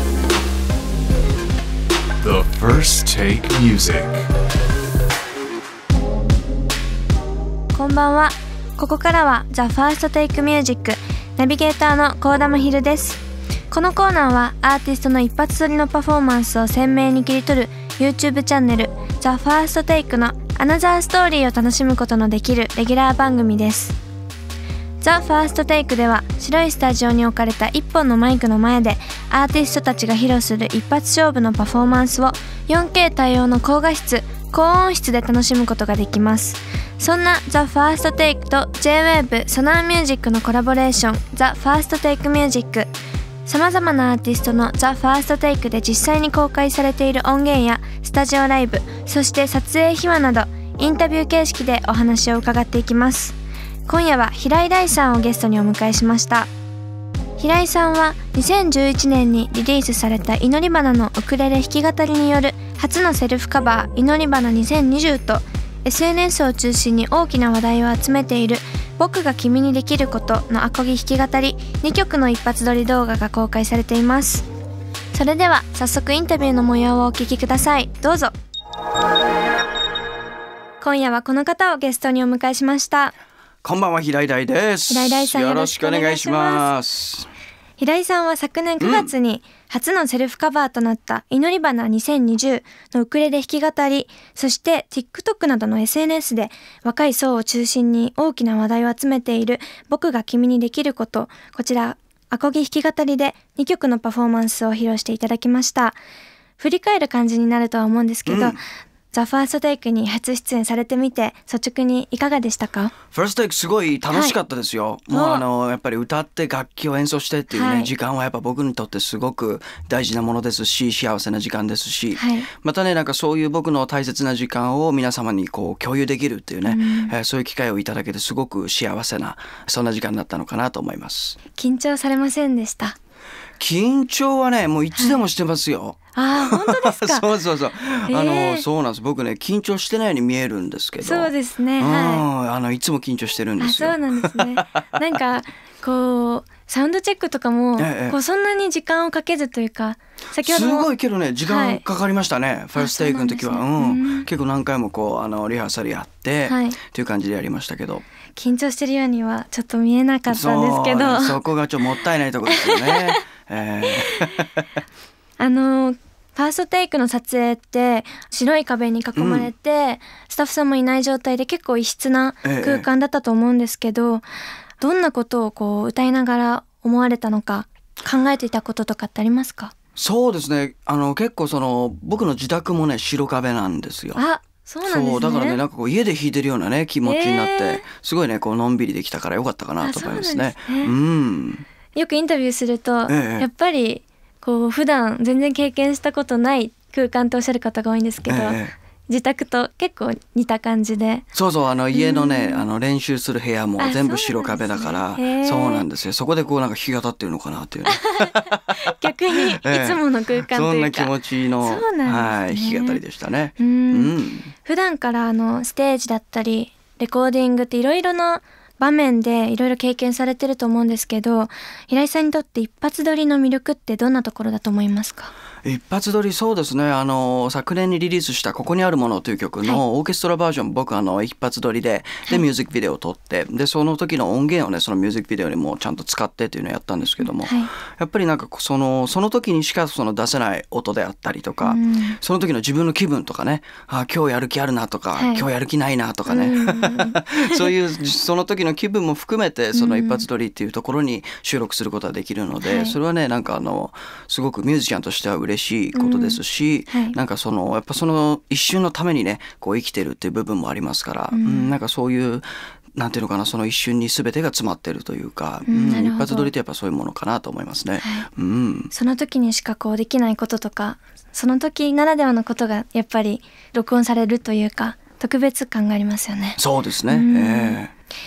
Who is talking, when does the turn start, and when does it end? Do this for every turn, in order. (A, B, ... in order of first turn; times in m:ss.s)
0:02.2-0:04.3 A
0:07.7-0:24.0 B
0:25.0-0:42.9 B
0:43.4-0:53.4 B
0:53.9-0:56.5 B
0:57.4-1:14.4 B
1:15.1-1:18.3 B
1:20.8-1:23.1 B
1:23.6-1:27.3 C
1:24.9-1:26.7 B
1:27.8-1:46.0 B
1:28.8-1:29.1 C
1:46.6-1:48.6 B
1:48.2-1:48.6 C
1:49.1-1:52.9 B
1:53.1-2:11.4 C
1:55.1-1:55.4 B
1:57.5-1:57.9 B
2:02.1-2:02.5 B
2:06.6-2:07.1 B
2:11.5-2:13.0 B
2:13.6-2:25.0 C
2:14.9-2:15.2 B
2:16.1-2:17.3 B
2:18.1-2:18.6 B
2:21.0-2:22.2 B
2:23.6-2:30.9 B
2:27.8-2:28.2 C
2:30.4-2:38.0 C
2:31.4-2:31.8 B
2:32.7-2:34.3 B
2:36.5-2:36.8 B
2:38.3-2:41.4 B
2:40.3-2:44.5 C
2:42.5-2:43.2 B
2:45.4-2:54.2 B
2:49.2-2:49.5 C
2:52.4-2:52.8 C
2:54.8-2:59.7 B
3:00.0-3:04.2 C
3:04.1-3:05.6 B
3:04.8-3:11.6 C
3:07.0-3:07.8 B
3:09.8-3:10.9 B
3:11.9-3:21.2 B
3:13.1-3:13.5 C
3:18.3-3:18.7 C
3:21.3-3:34.5 C
3:21.9-3:22.7 B
3:23.8-3:25.9 B
3:27.9-3:33.0 B
3:33.6-3:45.3 B
3:45.6-4:28.9 C
3:57.2-3:57.7 B
4:01.6-4:02.2 B
4:05.1-4:05.5 B
4:06.2-4:07.7 B
4:09.7-4:10.2 B
4:12.6-4:13.0 B
4:15.9-4:17.2 B
4:21.3-4:21.7 B
4:25.7-4:26.5 B
4:28.0-4:28.3 B
4:28.9-4:37.8 B
4:36.6-4:37.9 C